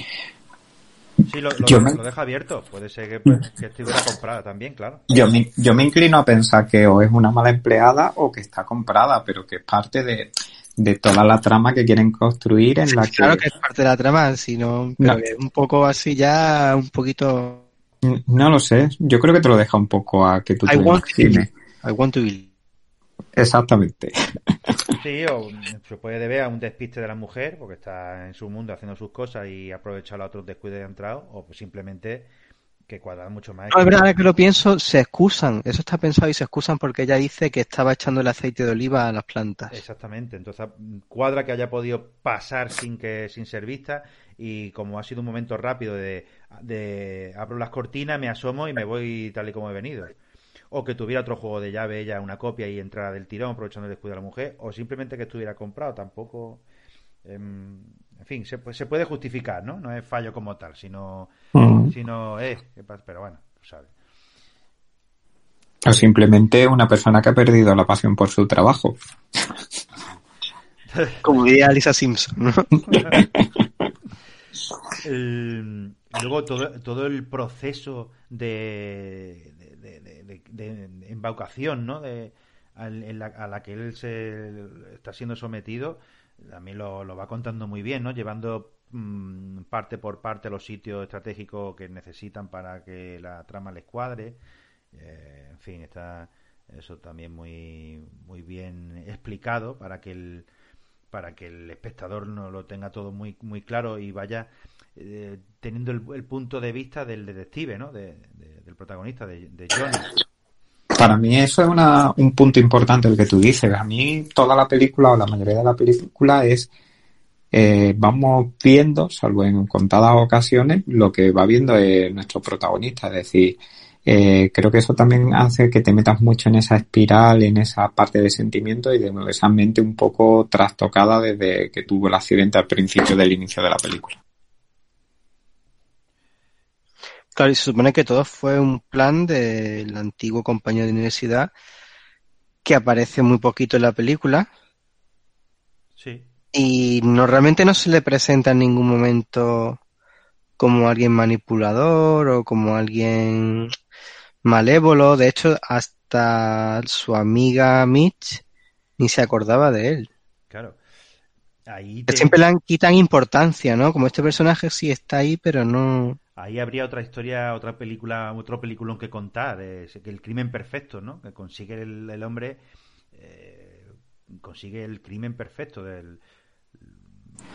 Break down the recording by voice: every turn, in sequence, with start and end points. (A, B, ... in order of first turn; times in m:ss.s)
0:01.2-0:05.0 A
0:01.6-0:02.0 B
0:05.1-0:13.4 B
0:12.9-0:17.6 C
0:18.0-0:21.5 B
0:20.7-0:22.5 C
0:23.4-0:24.1 B
0:25.0-0:32.3 A
0:32.9-0:34.2 A
0:33.7-0:39.8 C
0:39.7-0:50.2 A
0:50.7-0:56.6 A
0:57.2-1:01.3 A
1:01.5-1:01.9 B
1:01.8-1:03.9 A
1:05.8-1:09.0 B
1:10.9-1:11.5 A
1:11.2-1:12.7 C
1:12.9-1:13.2 A
1:15.0-1:34.4 A
1:34.9-1:40.5 A
1:41.1-1:50.1 A
1:51.0-1:56.7 B
1:57.5-2:14.2 B
2:17.4-2:21.5 C
2:22.6-2:24.5 C
2:26.0-2:26.3 A
2:26.5-2:29.8 C
2:30.6-2:33.7 C
2:34.4-2:38.4 C
2:39.0-2:40.1 C
2:40.5-2:40.8 A
2:41.7-2:42.4 A
2:42.1-2:46.2 C
2:46.4-2:52.6 A
2:53.1-2:56.2 A
2:56.8-2:57.1 A